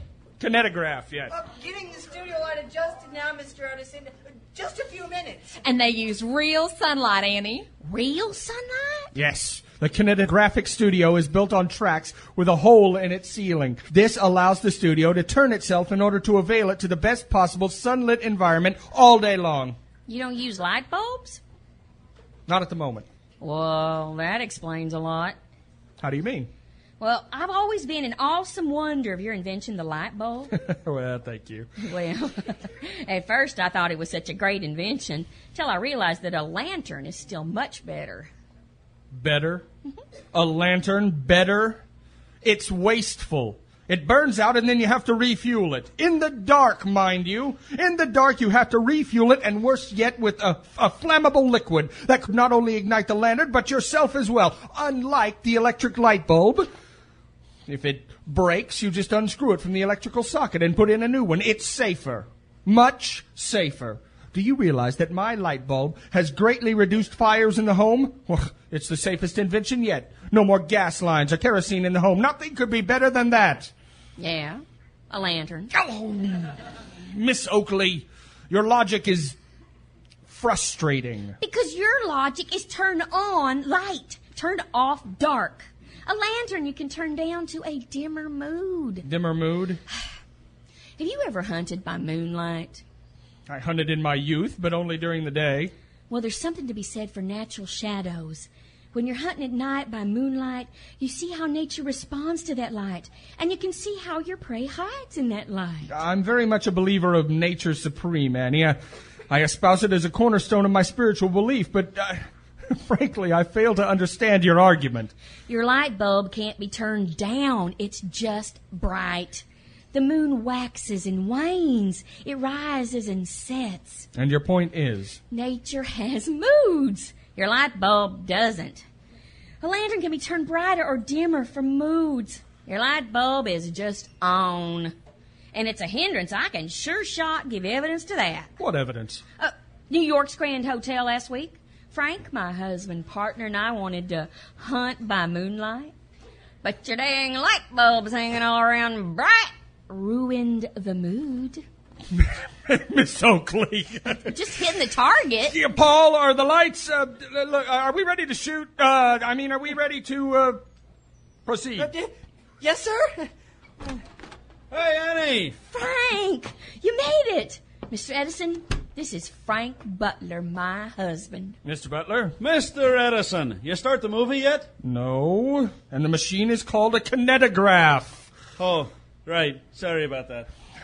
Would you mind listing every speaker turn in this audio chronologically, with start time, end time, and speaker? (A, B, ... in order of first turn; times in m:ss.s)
0:00.4-0:01.3 A
0:01.3-0:05.6 B
0:05.6-0:07.7 C
0:07.8-0:09.1 D
0:09.1-0:19.8 A
0:20.1-0:21.4 D
0:22.5-0:23.0 A
0:23.4-0:25.3 D
0:26.0-0:26.5 A
0:27.0-0:30.5 D
0:30.5-0:31.7 A
0:31.8-0:38.3 D
0:39.1-0:39.6 A
0:40.3-0:41.8 A
0:42.4-0:56.7 A
0:57.7-1:13.7 A
1:14.2-1:15.7 D
1:15.7-1:16.6 A
1:17.1-1:19.4 A
1:20.3-1:21.4 A
1:21.4-1:29.0 D
1:29.0-1:29.8 A
1:31.0-1:32.8 D
1:33.5-1:35.7 A
1:36.1-1:45.9 D
1:45.9-1:48.8 A
1:49.3-1:55.1 A
1:55.5-2:04.1 D
2:04.1-2:05.2 A
2:05.3-2:08.8 D
2:09.6-2:14.9 D
2:15.5-2:18.5 D
2:18.6-2:19.2 A
2:19.4-2:25.9 D
2:26.6-2:31.6 D
2:32.2-2:34.4 A
2:34.2-2:35.6 D
2:35.5-2:40.6 A
2:41.4-2:41.9 A
2:41.8-2:43.3 B
2:44.7-2:45.6 E
2:45.7-2:51.6 D
2:51.6-2:52.4 A
2:52.4-2:54.7 E
2:54.8-2:58.3 A
2:58.6-3:00.5 E